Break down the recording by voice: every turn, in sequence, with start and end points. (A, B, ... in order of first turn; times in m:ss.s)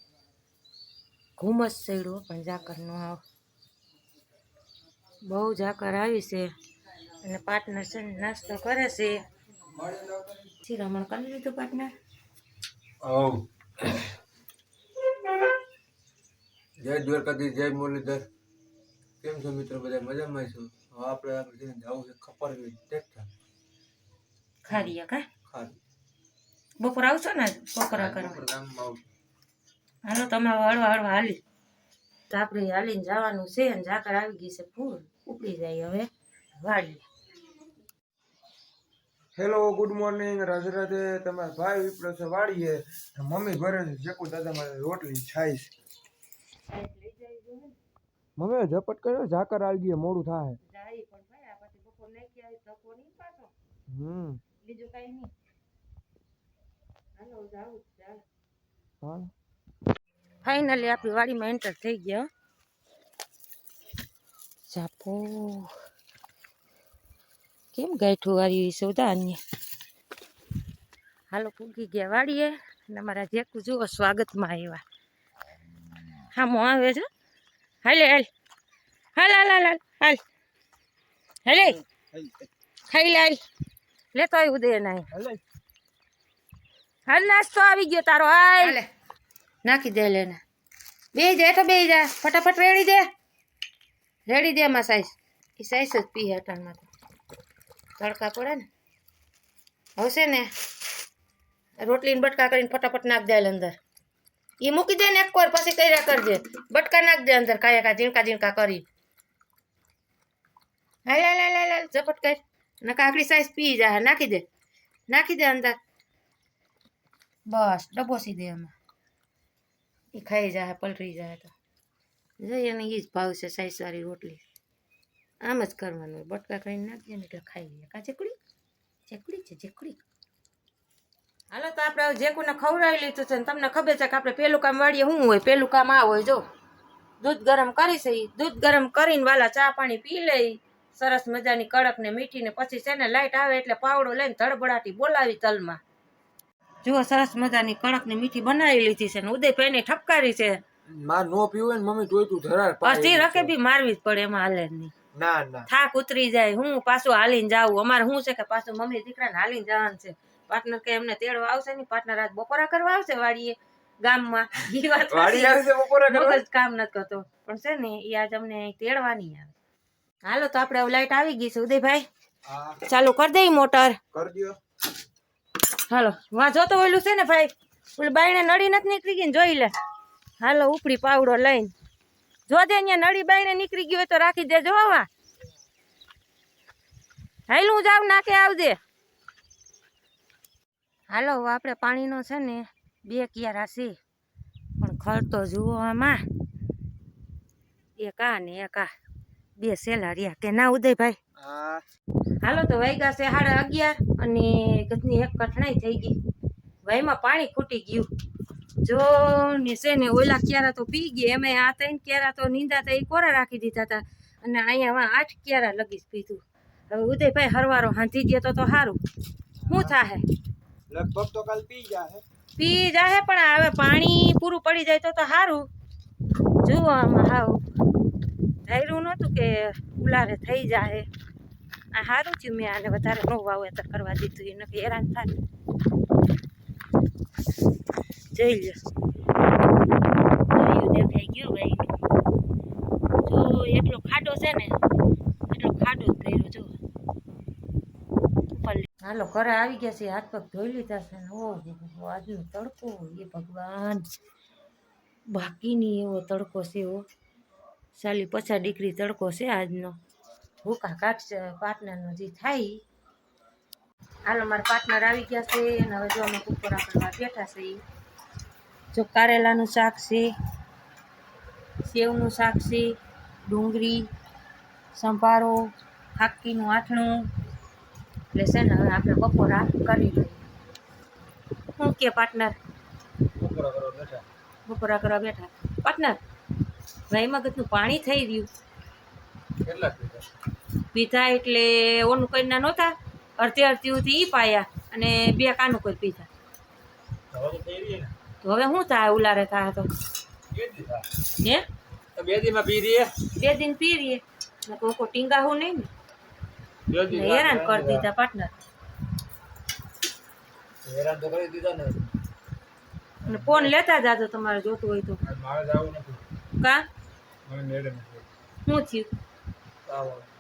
0:01.4-0:03.2 A
0:05.3-0:06.5 A
0:07.2-0:09.2 A
0:09.7-0:10.5 B
0:10.6-0:11.9 A
0:13.0-0:14.0 C
0:16.8-0:18.3 C
0:19.2-0:23.3 C
0:24.6-0:25.3 A
0:24.7-0:24.9 C
0:25.5-0:25.8 C
0:26.8-0:28.4 A
0:27.9-0:29.0 C
0:30.1-0:31.4 A
0:32.3-0:36.1 A
0:36.6-0:37.0 A
0:39.4-0:45.7 B
0:46.7-0:47.8 A
0:48.4-0:50.6 B
0:50.6-0:53.5 A
0:53.9-0:54.4 B
0:54.6-0:55.3 A
0:57.2-0:58.2 A
0:59.0-0:59.3 B
1:00.4-1:02.3 A
1:04.7-1:05.7 A
1:07.7-1:09.4 A
1:11.3-1:14.8 A
1:16.3-1:17.1 A
1:17.8-1:18.3 A
1:19.2-1:20.2 A
1:21.5-1:21.8 A
1:21.6-1:22.3 B
1:22.9-1:23.4 A
1:24.1-1:25.1 A
1:25.1-1:25.4 B
1:27.1-1:28.8 A
1:29.6-1:30.4 A
1:31.1-1:33.1 A
1:34.3-1:36.9 A
1:38.0-1:38.7 A
1:40.0-1:40.5 A
1:41.8-1:43.8 A
1:44.6-1:48.8 A
1:51.1-1:54.4 A
1:55.1-1:55.8 A
1:57.5-1:58.7 A
2:00.1-2:01.5 A
2:02.4-2:04.4 A
2:05.4-2:08.4 A
2:09.1-2:10.0 A
2:11.5-2:16.4 A
2:17.2-2:25.8 A
2:26.8-2:30.6 A
2:30.9-2:33.5 B
2:32.8-2:34.9 A
2:35.2-2:35.7 B
2:35.7-2:49.6 A
2:45.1-2:46.4 B
2:50.2-2:52.1 A
2:52.5-2:52.8 B
2:52.9-2:54.0 A
2:54.1-2:54.6 B
2:55.9-2:59.7 A
3:00.4-3:01.7 A
3:02.5-3:05.1 A
3:07.5-3:08.8 A
3:11.1-3:14.0 A
3:14.8-3:16.2 A
3:18.0-3:18.9 A
3:19.6-3:21.2 A
3:21.4-3:21.8 B
3:22.4-3:26.2 A
3:26.8-3:28.1 A
3:28.8-3:39.0 A
3:39.6-3:40.0 B
3:39.7-3:40.2 A
3:40.9-3:42.2 B
3:42.6-3:45.7 A
3:46.6-3:47.6 A
3:48.7-3:51.1 A
3:51.9-3:55.3 A
3:58.3-3:58.8 A
4:00.5-4:02.0 A
4:03.3-4:04.8 A
4:05.5-4:06.8 A
4:08.5-4:14.0 A
4:15.3-4:17.0 A
4:18.0-4:20.0 A
4:20.6-4:22.8 A
4:24.2-4:27.8 A
4:28.9-4:30.3 A
4:31.8-4:32.9 A
4:33.5-4:34.1 A
4:34.9-4:37.3 A
4:38.3-4:40.5 A
4:41.8-4:42.6 A
4:43.4-4:44.2 C
4:44.7-4:46.2 A
4:47.1-4:48.5 A
4:49.6-4:50.3 C
4:50.9-4:56.3 A
4:57.3-4:58.1 C
4:58.4-4:59.9 A
5:00.5-5:01.1 C
5:01.4-5:01.6 A
5:02.2-5:03.2 C
5:03.4-5:05.9 A
5:06.9-5:08.1 C
5:07.1-5:08.5 A
5:10.8-5:12.2 C
5:13.2-5:13.7 C
5:13.3-5:15.2 A
5:15.2-5:16.2 C
5:16.6-5:16.8 A
5:17.5-5:18.3 C
5:18.7-5:19.1 A
5:19.9-5:20.3 C